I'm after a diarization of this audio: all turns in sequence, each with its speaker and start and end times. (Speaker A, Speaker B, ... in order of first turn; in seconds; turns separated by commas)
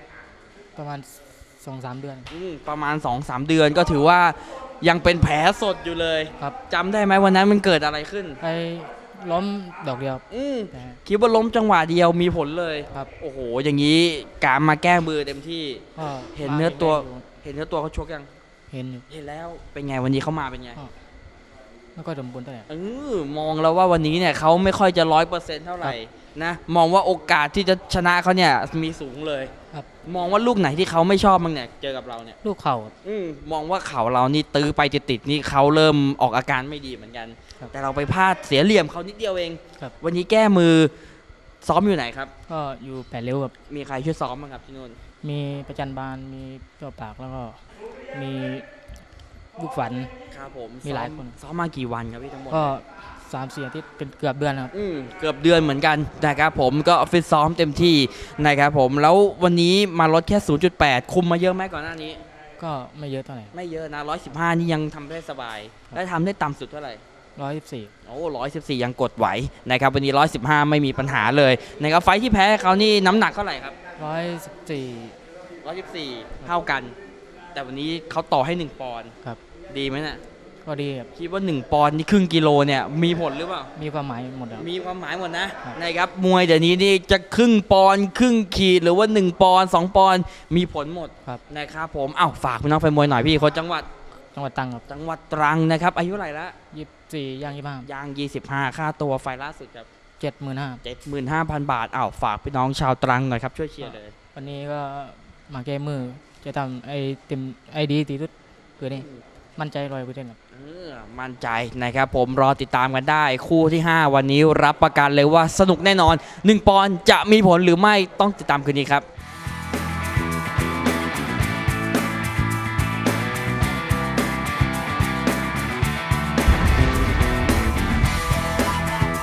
Speaker A: 0.8-2.3, Speaker B: 2.3-8.4, Speaker A: 8.4-11.0, Speaker B: 10.3-15.8, Speaker A: 16.0-17.3, Speaker B: 16.4-18.3, Speaker A: 18.7-19.1, Speaker B: 19.1-20.8, Speaker A: 22.0-22.7, Speaker B: 22.7-29.5, Speaker B: 30.0-32.4, Speaker A: 32.4-32.9, Speaker B: 33.0-40.9, Speaker B: 41.6-42.3, Speaker A: 42.5-43.5, Speaker B: 43.7-45.0, Speaker A: 45.2-47.6, Speaker A: 48.1-48.7, Speaker A: 49.6-50.1, Speaker B: 50.3-52.8, Speaker A: 50.8-51.4, Speaker A: 52.5-54.7, Speaker B: 54.7-62.2, Speaker A: 62.6-63.5, Speaker B: 63.5-67.0, Speaker A: 67.4-67.9, Speaker B: 68.1-73.8, Speaker A: 74.0-75.2, Speaker B: 75.6-77.0, Speaker B: 77.5-79.1, Speaker B: 79.7-80.2, Speaker A: 80.7-81.1, Speaker B: 81.2-83.7, Speaker A: 83.8-84.7, Speaker B: 84.6-93.9, Speaker A: 94.3-94.8, Speaker B: 94.9-96.5, Speaker A: 96.7-97.9, Speaker B: 97.8-99.9, Speaker A: 100.2-100.8, Speaker B: 100.8-104.1, Speaker A: 103.8-110.4, Speaker B: 110.5-119.1